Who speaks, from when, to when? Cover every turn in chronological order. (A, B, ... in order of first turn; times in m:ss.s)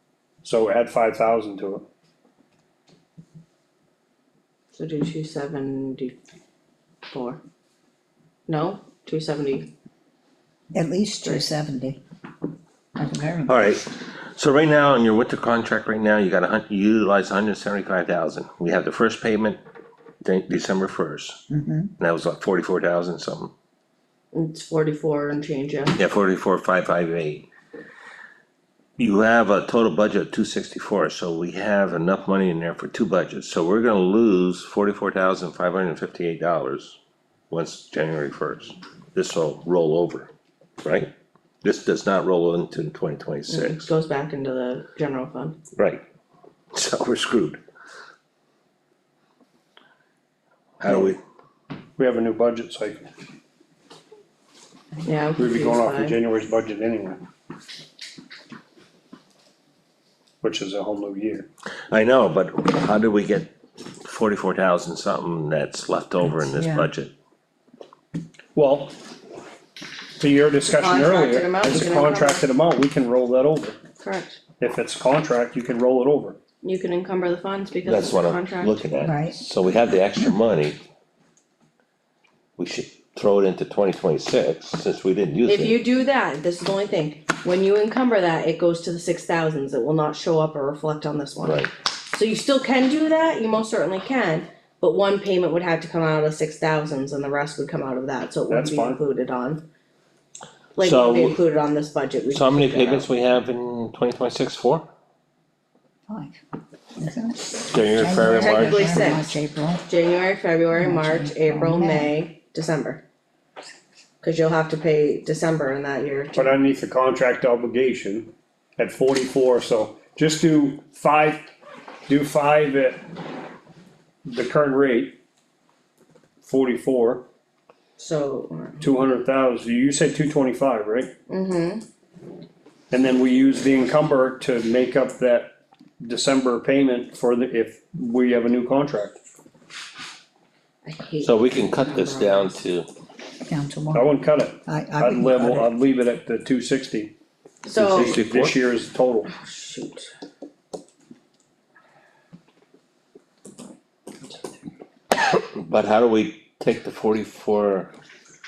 0:00.4-0:01.8 A
0:04.7-0:06.2 B
0:07.1-0:07.4 B
0:08.5-0:09.7 B
0:10.7-0:12.0 C
0:13.0-0:13.6 C
0:13.5-0:19.6 D
0:20.2-0:21.4 D
0:21.5-0:21.9 C
0:22.0-0:23.5 D
0:24.3-0:26.0 B
0:26.0-0:27.5 D
0:29.0-0:37.0 D
0:37.5-0:40.3 D
0:40.8-0:41.1 D
0:41.6-0:43.9 D
0:43.5-0:45.6 B
0:45.8-0:46.0 D
0:46.7-0:47.6 D
0:50.8-0:51.2 D
0:52.0-0:53.1 A
0:55.0-0:56.2 B
0:55.4-0:57.2 A
1:00.4-1:01.5 A
1:01.9-1:03.5 D
1:04.0-1:07.1 D
1:06.5-1:06.9 C
1:08.6-1:09.0 A
1:10.2-1:13.8 A
1:10.7-1:12.4 B
1:14.0-1:14.4 B
1:14.6-1:16.4 A
1:16.6-1:18.8 B
1:17.8-1:20.8 D
1:19.0-1:19.4 C
1:22.6-1:25.8 D
1:25.5-1:39.6 B
1:31.4-1:31.7 D
1:38.5-1:39.0 A
1:40.8-1:43.1 B
1:40.8-1:41.4 D
1:42.3-1:44.9 D
1:46.1-1:46.4 C
1:47.0-1:49.8 C
1:47.6-1:48.9 D
1:48.2-1:53.0 B
1:50.7-1:52.1 C
1:54.2-1:56.6 B
1:56.4-2:01.5 A
2:02.1-2:03.0 A
2:04.2-2:05.2 A
2:06.4-2:07.3 A
2:08.0-2:08.8 B
2:08.8-2:11.1 A
2:11.3-2:11.8 B
2:12.9-2:19.2 A
2:20.8-2:22.6 B
2:21.2-2:22.9 D
2:23.5-2:24.1 C
2:23.9-2:27.1 A
2:24.7-2:25.7 C
2:27.6-2:28.2 B
2:27.8-2:28.6 D
2:27.8-2:29.3 A
2:29.3-2:30.1 B
2:35.2-2:37.9 D